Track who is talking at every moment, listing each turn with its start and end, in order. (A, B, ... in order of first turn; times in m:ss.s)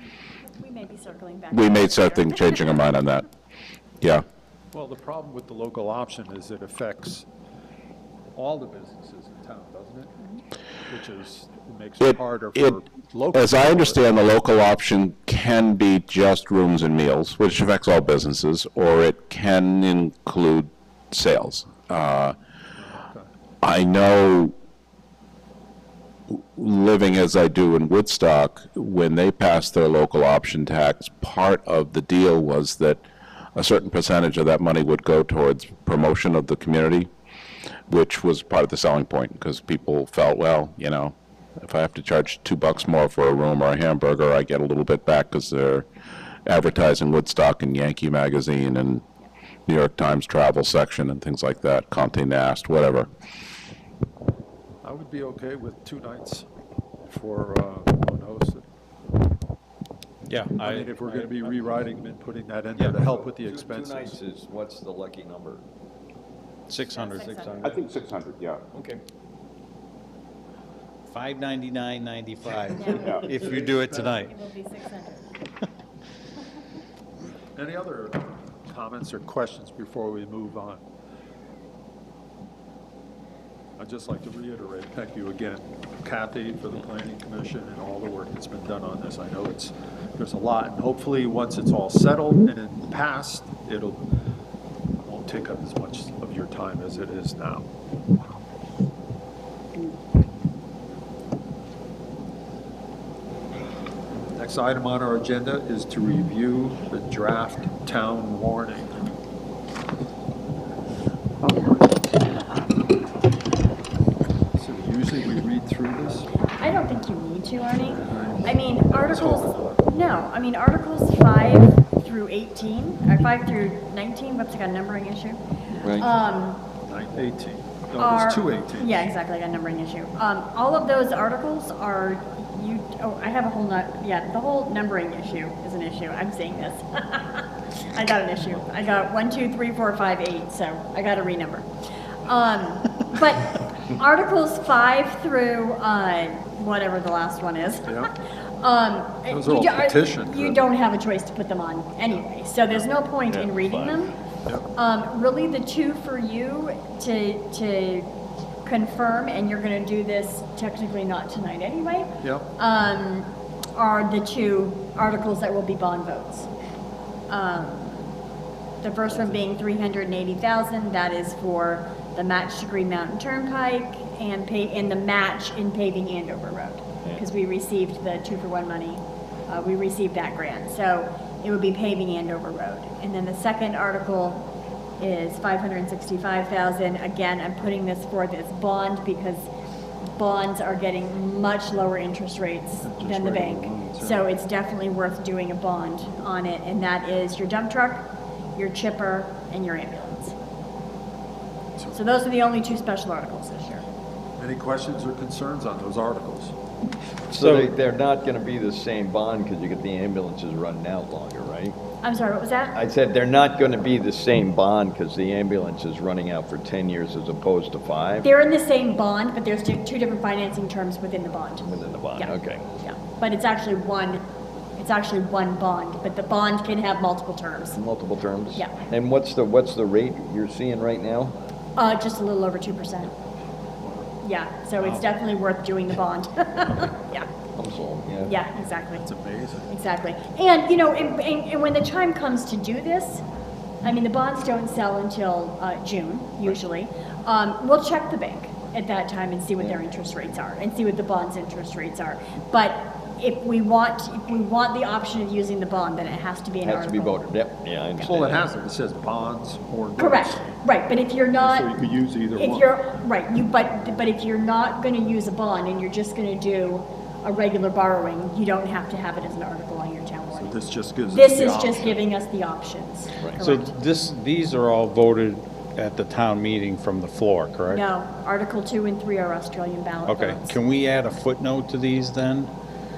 0:00.5-0:02.6 A
0:01.5-0:03.2 B
0:04.7-0:07.3 C
0:08.3-0:10.2 C
0:10.9-0:14.0 C
0:12.0-0:12.7 B
0:13.3-0:22.4 B
0:22.8-0:23.3 C
0:23.6-0:24.5 B
0:26.3-0:33.0 B
0:33.6-0:37.1 B
0:37.9-0:45.9 B
0:46.5-0:49.0 B
0:49.7-0:53.1 B
0:54.8-0:56.5 C
0:57.1-0:58.7 C
1:00.3-1:01.5 D
1:00.6-1:04.2 C
1:02.9-1:05.6 E
1:06.7-1:07.8 D
1:06.9-1:07.8 A
1:07.6-1:08.6 B
1:08.7-1:09.0 E
1:11.1-1:14.3 D
1:12.7-1:13.3 A
1:13.5-1:13.9 C
1:13.8-1:15.4 A
1:17.6-1:20.8 C
1:23.8-1:34.1 C
1:35.0-1:37.7 C
1:44.3-1:49.1 C
1:54.5-1:56.3 C
1:56.5-2:06.7 A
1:58.0-1:59.9 C
2:05.8-2:06.2 E
2:06.8-2:09.1 C
2:08.0-2:21.7 A
2:22.2-2:28.1 A
2:28.6-2:34.2 A
2:29.3-2:30.7 C
2:33.3-2:34.0 E
2:34.7-2:38.1 A
2:38.6-2:46.5 A
2:42.2-2:42.5 C
2:47.3-2:48.1 A
2:48.8-3:09.5 A
3:10.2-3:20.3 A
3:12.8-3:14.3 C
3:21.9-3:23.8 A
3:24.4-3:26.6 C
3:27.3-3:31.8 E
3:27.4-3:27.6 D
3:32.0-3:32.8 A
3:32.7-3:38.3 E
3:38.2-3:44.2 A
3:41.6-3:42.7 E
3:44.8-3:47.8 A
3:47.8-3:51.4 E
3:48.6-3:48.8 A
3:51.8-3:53.1 A
3:53.8-3:54.1 C
3:54.2-3:57.3 A
3:57.6-3:58.3 E
3:58.2-3:59.1 A
3:59.0-3:59.7 C
3:59.7-4:03.2 A
4:03.8-4:17.2 A
4:16.6-4:18.4 E
4:18.0-4:20.6 C
4:20.0-4:21.8 A
4:21.4-4:22.7 C
4:22.3-4:33.7 A
4:30.3-4:32.0 C
4:33.4-4:37.8 D
4:37.7-4:40.6 A
4:40.1-4:42.5 D